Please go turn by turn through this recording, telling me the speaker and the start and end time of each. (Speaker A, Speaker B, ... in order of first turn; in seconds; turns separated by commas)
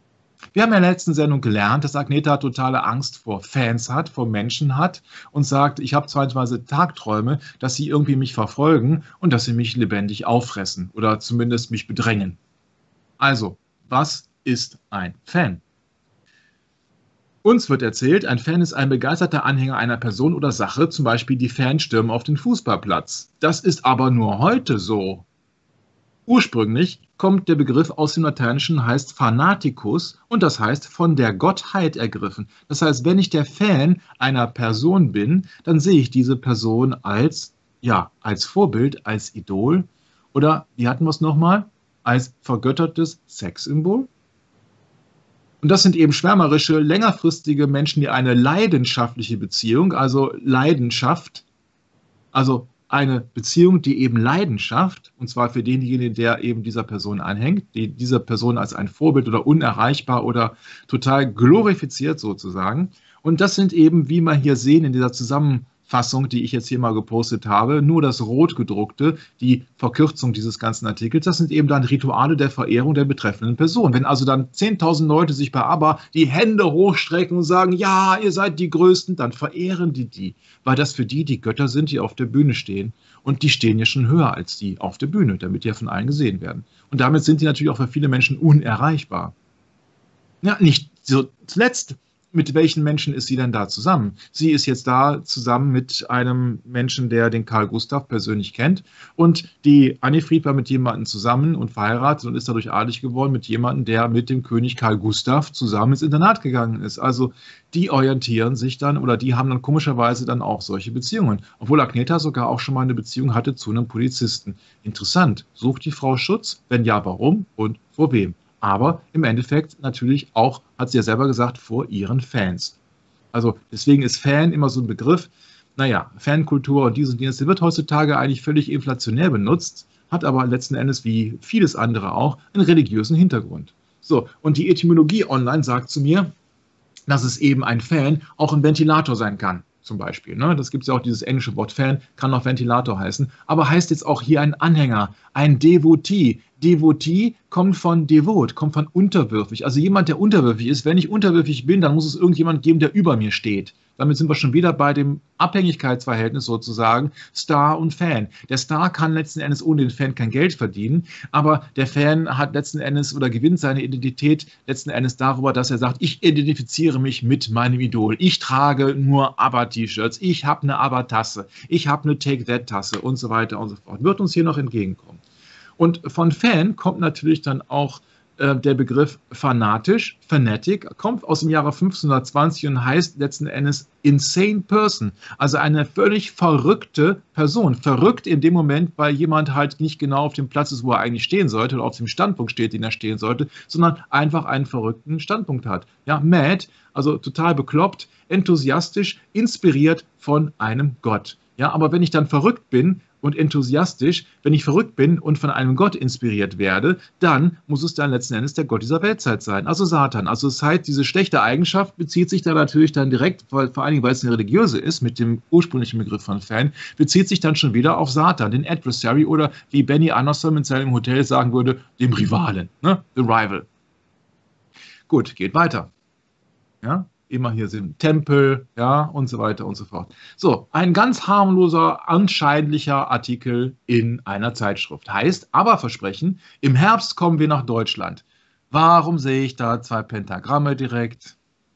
Speaker A: 0.5-12.4, Speaker A: 13.2-15.6, Speaker A: 17.4-25.2, Speaker A: 26.3-44.1, Speaker A: 45.6-51.4, Speaker A: 52.3-89.3, Speaker A: 90.4-122.8, Speaker A: 123.3-136.3, Speaker A: 137.1-175.2, Speaker A: 175.8-223.7, Speaker A: 225.1-225.9, Speaker A: 226.8-241.3